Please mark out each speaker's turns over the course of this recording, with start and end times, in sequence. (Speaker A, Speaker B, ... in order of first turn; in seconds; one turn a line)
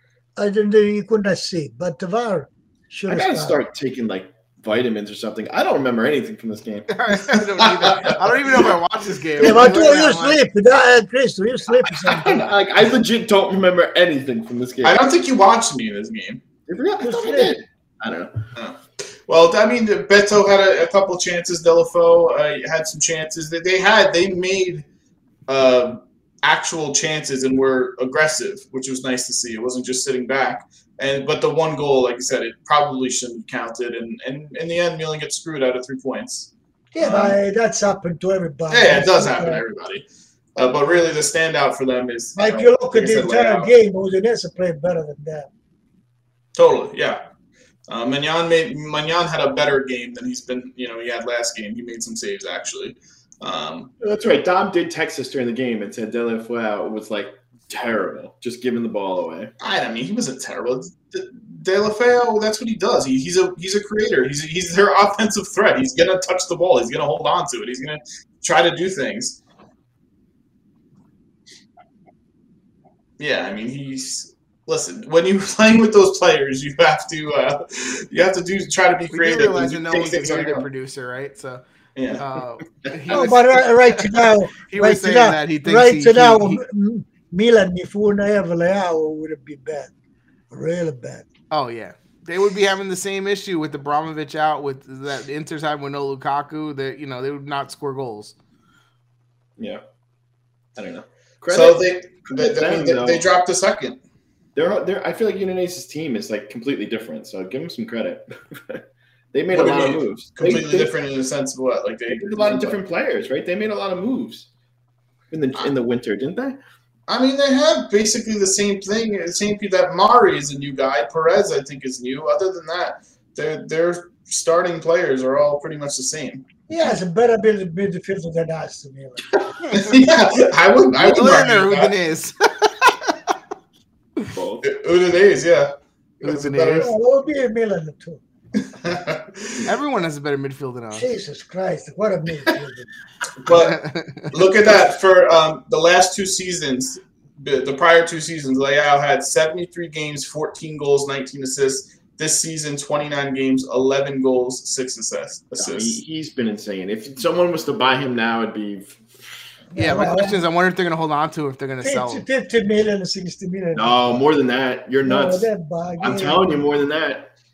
Speaker A: 0.4-3.6
Speaker B: 3.1-6.9
Speaker C: 6.9-10.4
Speaker D: 7.3-8.7
Speaker A: 9.4-12.4
Speaker B: 12.1-15.0
Speaker D: 14.8-16.4
Speaker B: 16.7-18.4
Speaker A: 17.0-17.6
Speaker D: 18.6-24.8
Speaker D: 25.5-37.4
Speaker A: 36.9-39.6
Speaker D: 38.7-40.0
Speaker D: 40.5-43.7
Speaker A: 42.4-45.5
Speaker D: 46.5-47.2
Speaker D: 47.9-53.9
Speaker B: 54.0-59.5
Speaker D: 59.6-69.4
Speaker D: 73.2-80.7
Speaker C: 79.1-81.6
Speaker D: 81.9-82.2
Speaker C: 82.1-86.6
Speaker B: 82.8-83.1
Speaker A: 83.1-89.9
Speaker A: 90.5-91.2
Speaker C: 91.5-98.3
Speaker B: 100.8-103.2
Speaker D: 101.5-104.0
Speaker B: 104.5-110.9
Speaker D: 109.5-112.8
Speaker B: 112.1-114.5
Speaker B: 115.3-116.6
Speaker D: 117.1-126.4
Speaker A: 126.7-129.2
Speaker D: 129.7-131.9
Speaker C: 130.9-133.1
Speaker B: 134.3-134.6
Speaker D: 134.6-136.9
Speaker C: 136.2-136.9
Speaker A: 136.8-138.2
Speaker D: 138.6-139.7
Speaker C: 139.6-141.1
Speaker A: 140.9-142.9
Speaker D: 143.4-143.8
Speaker C: 143.5-144.3
Speaker D: 144.3-156.0
Speaker B: 155.6-159.4
Speaker A: 159.7-160.4
Speaker C: 159.8-162.2
Speaker A: 161.8-164.2
Speaker B: 163.7-165.5
Speaker A: 165.0-166.6
Speaker B: 166.0-167.3